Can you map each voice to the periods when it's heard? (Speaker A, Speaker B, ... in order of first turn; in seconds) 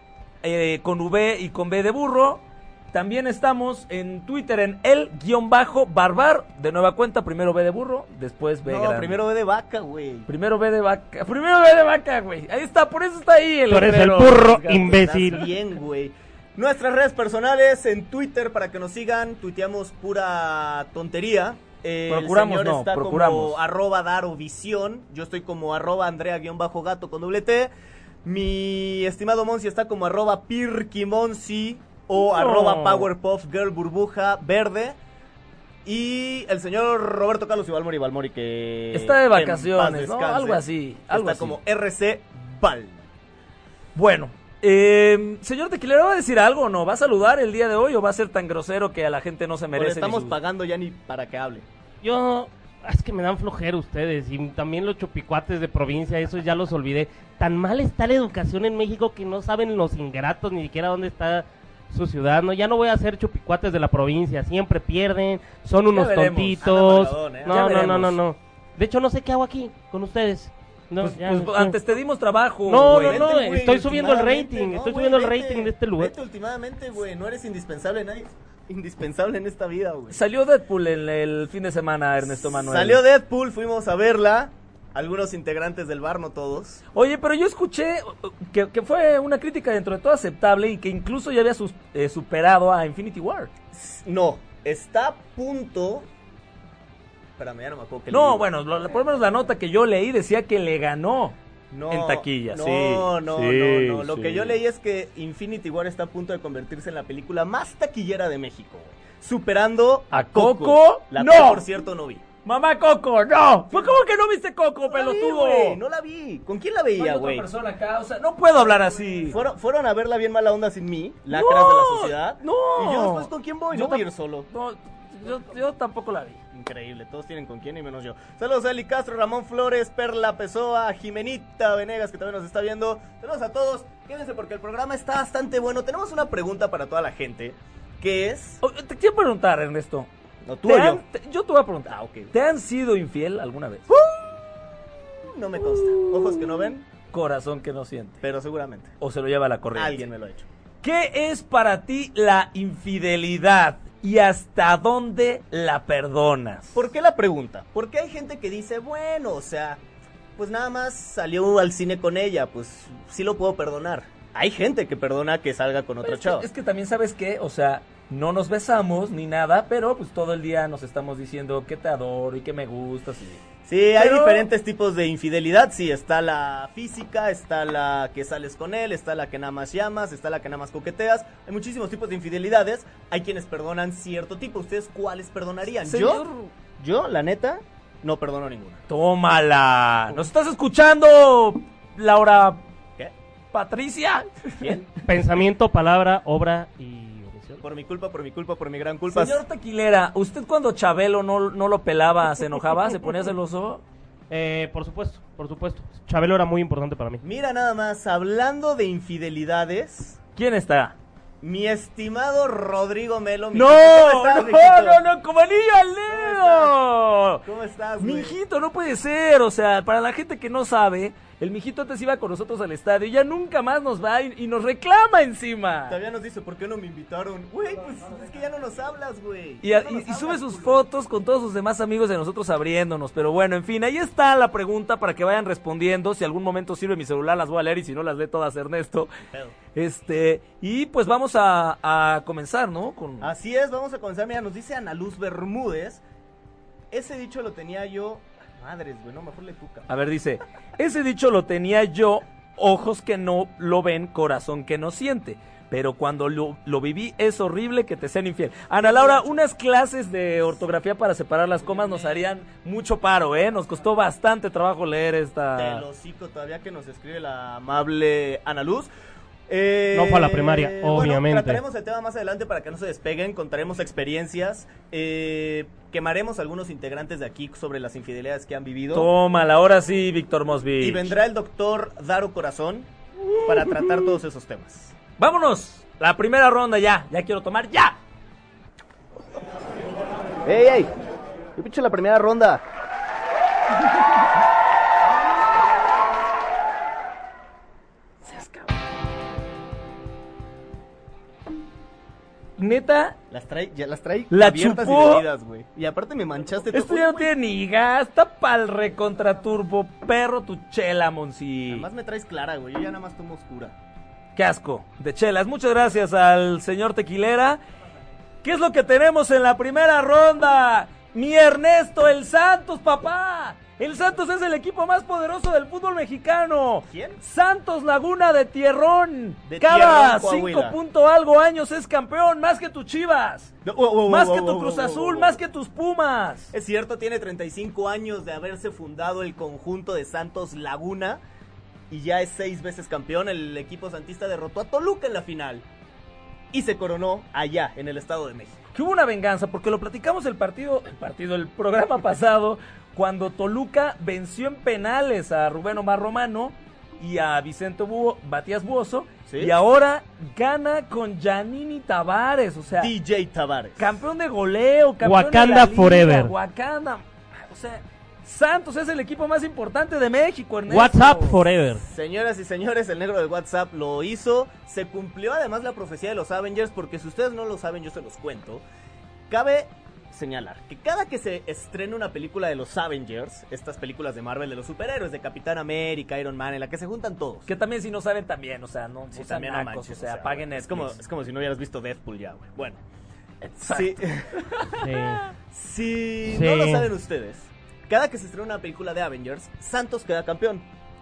Speaker A: 0.4-9.2, 10.3-14.9, 22.1-23.6, 32.2-33.1, 38.9-41.6, 44.0-50.4, 65.9-66.7, 67.4-68.2, 71.0-73.3, 80.1-83.0, 86.9-93.5, 98.1-101.4, 101.9-104.6, 110.1-111.7, 112.5-115.8, 117.0-119.4, 121.3-126.4, 138.6-140.1, 140.7-143.8, 145.9-148.2, 149.0-150.0, 150.8-156.8, 166.0-173.4, 174.0-174.5, 185.8-186.5, 188.9-192.6, 193.5-194.8, 199.1-203.8, 210.4-211.0, 213.5-217.4, 218.0-226.0, 229.6-239.1, 239.8-243.3, 249.9-265.8, 278.9-281.1, 283.4-284.0, 285.2-288.0, 298.2-298.6, 302.6-303.2, 304.3-305.3, 306.7-311.9, 314.4-317.6, 318.4-333.6, 334.1-336.5, 348.7-362.9, 363.8-371.4, 387.5-391.0, 393.4-395.2
Speaker B: 8.7-10.3, 14.7-27.7, 28.2-35.0, 35.9-43.0, 49.8-51.7, 66.6-68.0, 73.0-80.2, 82.4-86.8, 93.7-96.1, 97.4-98.5, 101.7-112.3, 113.7-114.0, 114.9-117.5, 119.3-124.5, 126.5-138.6, 140.5-141.0, 141.9-142.3, 143.9-144.5, 145.2-146.8, 148.2-148.9, 149.8-150.5, 156.8-159.8, 160.4-166.5, 173.7-186.2, 186.8-188.8, 194.6-194.9, 197.6-199.4, 207.2-210.2, 211.4-215.0, 216.1-216.7, 217.4-218.4, 225.9-230.8, 239.2-239.6, 243.2-246.0, 246.9-249.9, 258.8-259.4, 261.7-262.2, 265.6-268.9, 269.5-279.1, 280.8-282.9, 283.4-285.0, 290.4-290.9, 291.6-292.6, 303.3-307.3, 311.7-313.8, 326.9-327.2, 329.5-330.8, 333.6-335.4, 336.5-341.2, 341.9-345.7, 346.5-348.7, 359.3-359.6, 362.8-364.0, 371.8-378.6, 379.3-387.5, 389.1-392.8, 393.6-394.4, 395.5-400.7
Speaker C: 13.7-15.5, 52.0-71.8, 72.7-76.1, 195.0-197.6, 204.3-207.2, 269.9-271.6, 365.0-366.3, 370.7-371.8, 394.8-395.2, 396.2-396.9